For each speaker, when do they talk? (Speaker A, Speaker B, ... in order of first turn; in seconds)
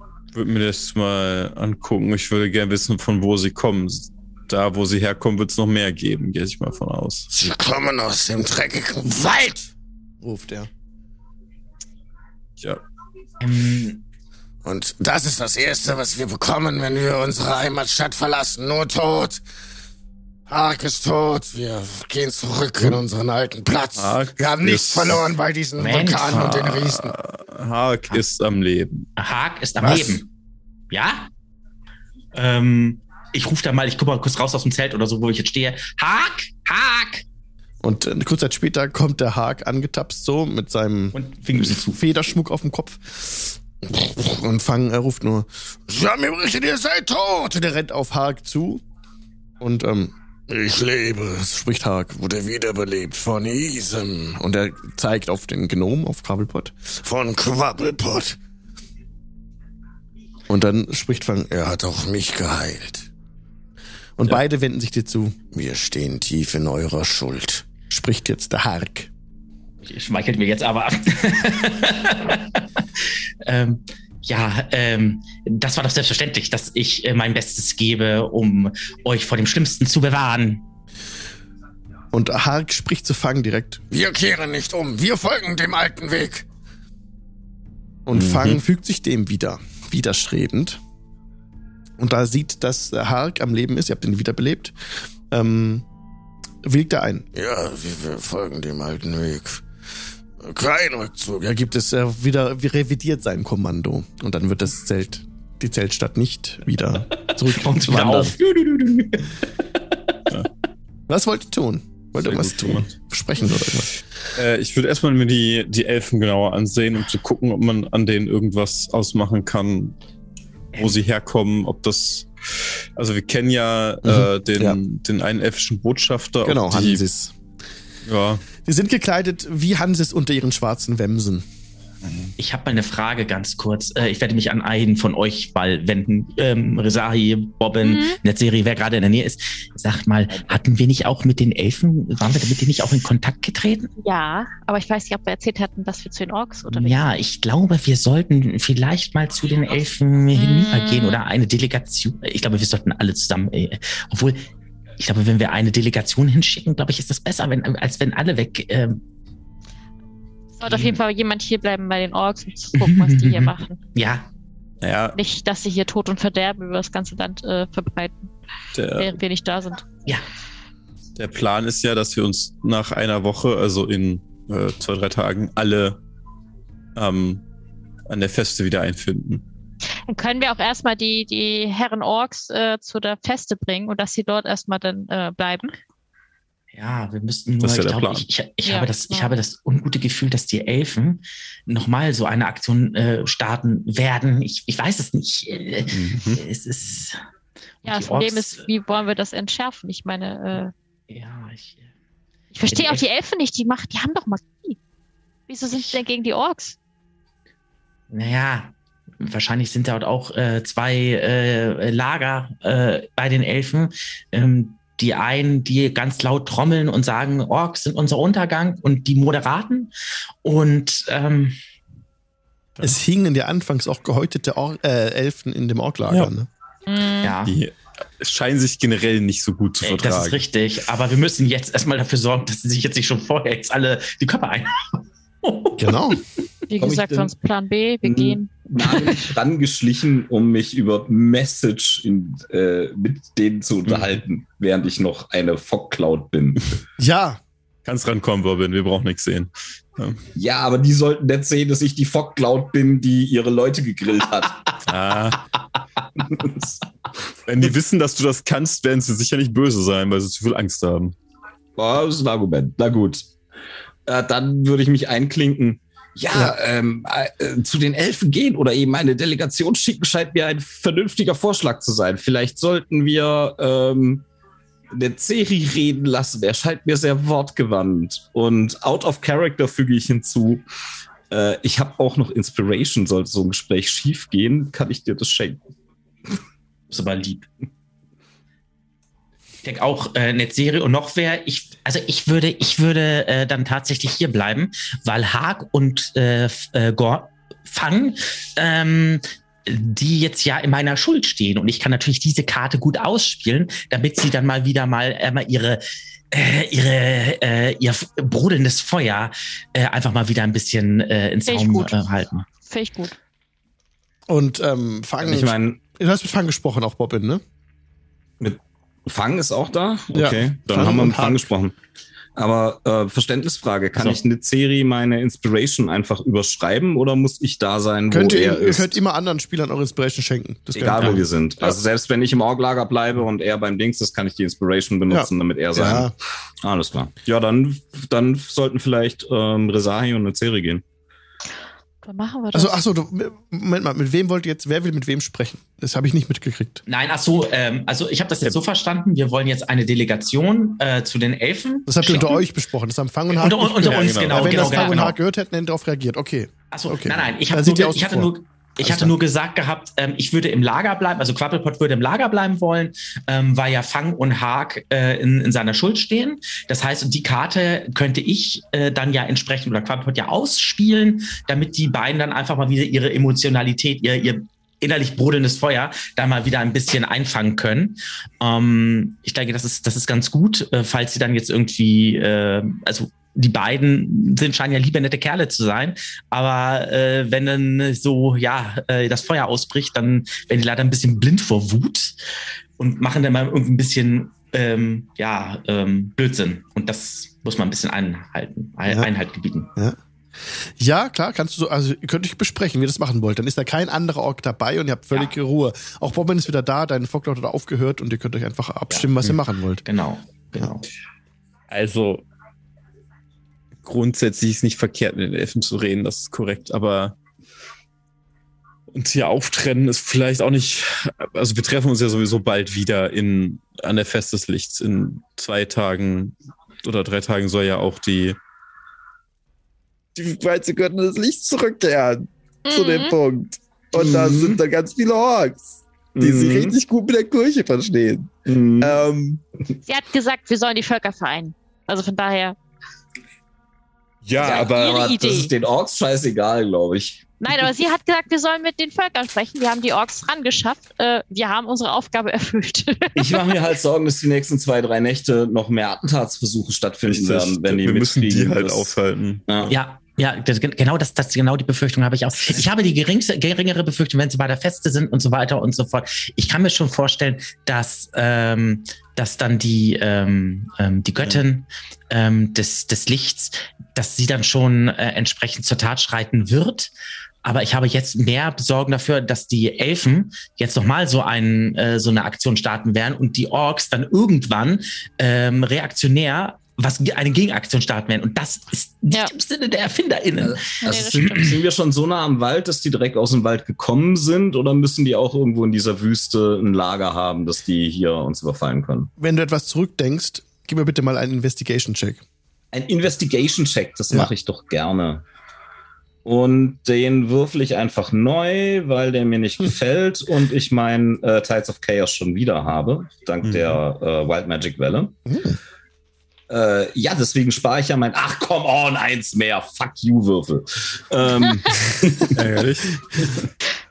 Speaker A: 0.3-7.3, 24.0-25.3, 26.3-29.1, 88.1-88.6, 112.2-112.9, 114.3-120.0, 120.8-122.3, 123.0-127.0, 128.1-128.4, 132.1-132.3, 164.8-165.2, 168.8-169.2, 171.2-176.0, 177.0-177.4, 178.1-179.4, 187.6-188.3, 195.9-196.4, 227.4-230.4, 243.9-244.2, 247.8-250.2, 254.9-255.4, 257.5-261.1, 353.8-354.9, 411.7-412.2, 413.8-417.2, 418.9-428.4, 430.1-439.4, 444.2-444.7, 457.1-459.8, 513.4-513.8, 522.3-523.5
Speaker B: 7.3-9.7, 14.6-19.4, 20.5-27.1, 45.9-47.8, 50.5-51.6, 52.1-54.4, 57.0-58.4, 61.5-63.1, 65.5-67.7, 83.9-86.5, 97.3-99.7, 100.4-101.7
Speaker C: 10.2-10.7, 29.9-30.2, 37.8-41.2, 41.7-43.6, 44.3-45.5, 47.7-48.8, 49.6-50.1, 51.5-52.2, 54.4-57.0, 60.5-61.5, 64.2-65.4, 67.8-69.1, 82.1-83.9, 88.1-90.8, 92.0-95.8, 96.6-97.3, 101.5-108.4, 111.1-113.9, 124.0-124.8, 126.5-127.3, 128.6-131.4, 222.8-226.5, 235.8-236.2, 247.0-247.4, 314.3-317.4, 320.1-321.5, 328.1-331.8, 335.1-336.1, 342.5-346.8, 351.9-359.1, 399.8-409.8, 499.2-502.2, 515.3-515.6
Speaker D: 13.4-14.0, 25.8-26.5, 29.2-30.3, 30.9-31.3, 32.3-37.2, 41.1-42.0, 69.8-80.6, 107.2-110.2, 132.4-143.9, 146.7-154.5, 155.0-159.0, 160.7-161.0, 162.8-164.3, 186.7-197.2, 197.8-198.7, 201.1-201.9, 202.7-203.1, 205.7-206.0, 208.1-219.9, 220.4-221.6, 227.2-227.6, 229.8-236.2, 286.9-287.5, 289.6-312.5, 324.0-324.2, 346.9-352.4, 353.3-355.2, 356.7-392.2, 392.8-399.7, 408.9-410.9, 459.7-476.9, 477.4-491.6
Speaker E: 137.8-138.2, 144.0-147.0, 150.4-151.2, 160.6-163.8, 165.1-168.3, 168.9-169.8, 180.1-185.8, 188.7-189.3, 197.8-200.7, 202.5-204.8, 205.5-206.8, 226.9-227.3, 236.7-239.3, 311.5-311.9, 312.6-313.2, 342.0-342.8, 432.7-433.2, 439.9-442.6, 444.5-445.5, 447.4-453.6, 490.8-491.5
Speaker F: 236.8-237.3, 238.0-246.8, 250.3-254.7, 256.2-256.8, 261.8-263.3, 264.1-274.2, 274.9-280.6, 281.3-285.6, 315.2-315.8, 318.4-321.8, 322.4-329.0, 330.7-336.1, 336.6-340.8, 433.9-434.6, 436.2-436.8, 438.5-439.0, 444.4-447.3, 453.2-459.0, 459.5-459.7, 490.4-499.1, 502.7-505.2, 506.2-515.2, 516.5-522.7